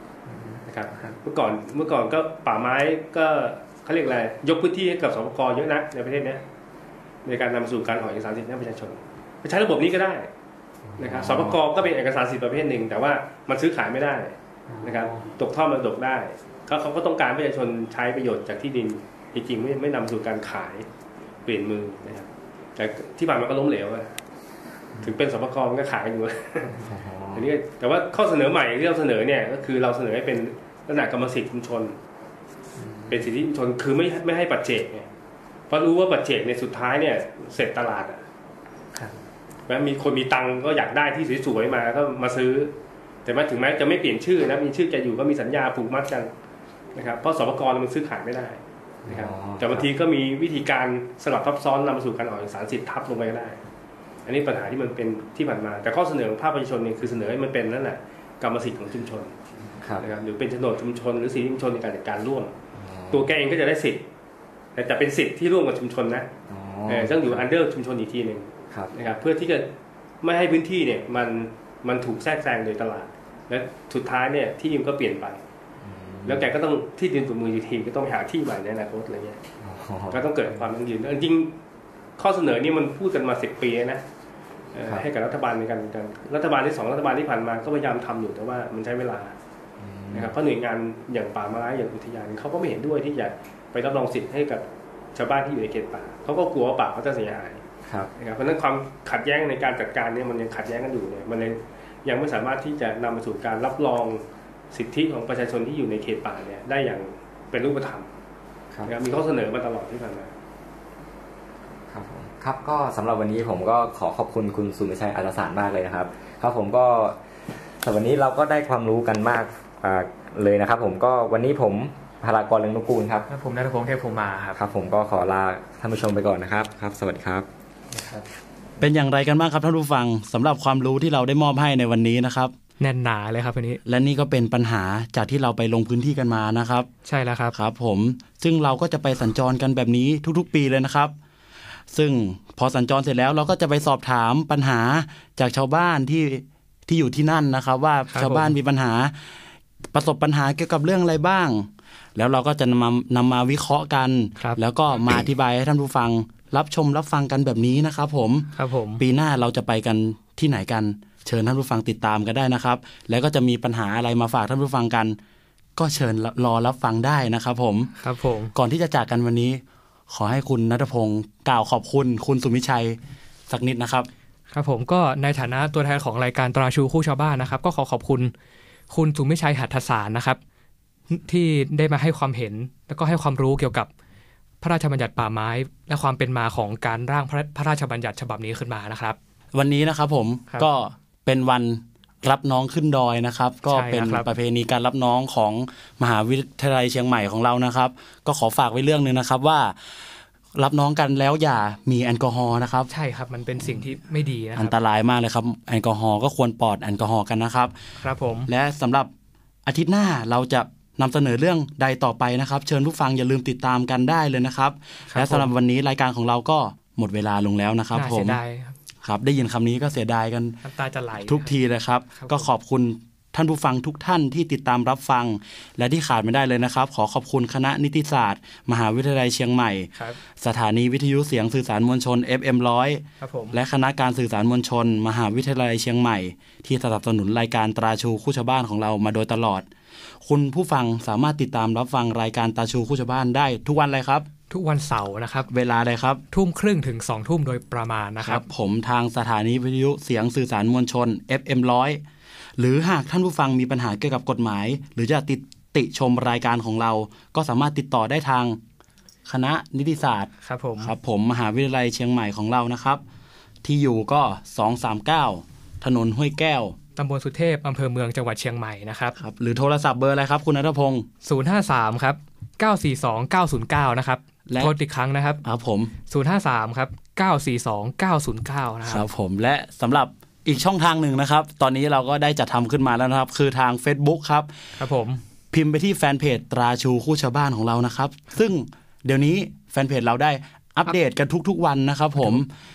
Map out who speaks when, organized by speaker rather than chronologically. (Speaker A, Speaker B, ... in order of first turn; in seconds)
Speaker A: 0.3-1.1, 14.7-15.3, 123.3-124.6, 127.9-128.3, 132.8-133.8, 137.1-137.5, 148.1-148.5, 158.6-159.0, 168.0-168.5, 174.5-178.3, 178.9-180.4, 181.1-183.9, 184.6-189.2, 193.7-194.3, 202.9-204.7, 208.0-208.5, 215.1-215.5, 217.9-218.7, 220.6-221.6, 222.1-222.5, 233.2-233.6, 244.5-245.5, 246.3-248.4, 260.4-260.9, 266.9-269.2, 271.2-275.4, 276.1-279.0, 284.8-285.2, 292.2-292.4
Speaker B: 0.7-6.4, 7.2-10.3, 11.0-20.9, 21.4-24.2, 25.0-26.8, 27.3-31.9, 33.1-35.1, 35.7-38.2, 39.7-42.7, 43.2-46.3, 46.9-53.6, 54.2-59.3, 60.0-62.5, 63.1-64.0, 64.8-66.3, 66.9-69.7, 70.2-75.4, 76.2-79.4, 80.1-81.5, 82.2-84.0, 84.7-89.3, 90.1-94.6, 95.1-97.6, 98.2-108.1, 108.8-110.3
Speaker C: 11.0-11.7, 26.8-27.5, 49.0-49.9, 59.6-60.0, 62.7-63.3, 66.5-67.5, 75.8-76.5, 79.6-80.2, 89.8-90.3, 97.8-98.1, 111.9-117.2, 117.8-123.3, 124.5-127.5
Speaker D: 128.8-132.5, 133.8-136.9, 137.5-141.1, 141.9-149.2, 149.9-165.2, 165.8-167.9, 168.5-173.0, 173.5-174.1, 189.5-199.7, 200.6-202.9, 203.6-203.8, 204.6-207.7, 208.4-209.1, 209.6-218.4, 219.0-220.6, 221.2-239.7, 240.2-244.3, 245.5-246.2, 248.2-252.0, 252.6-258.6, 259.2-263.0, 263.6-266.8, 269.2-271.1, 274.5-274.7, 275.4-275.9, 278.9-284.5, 285.5-292.5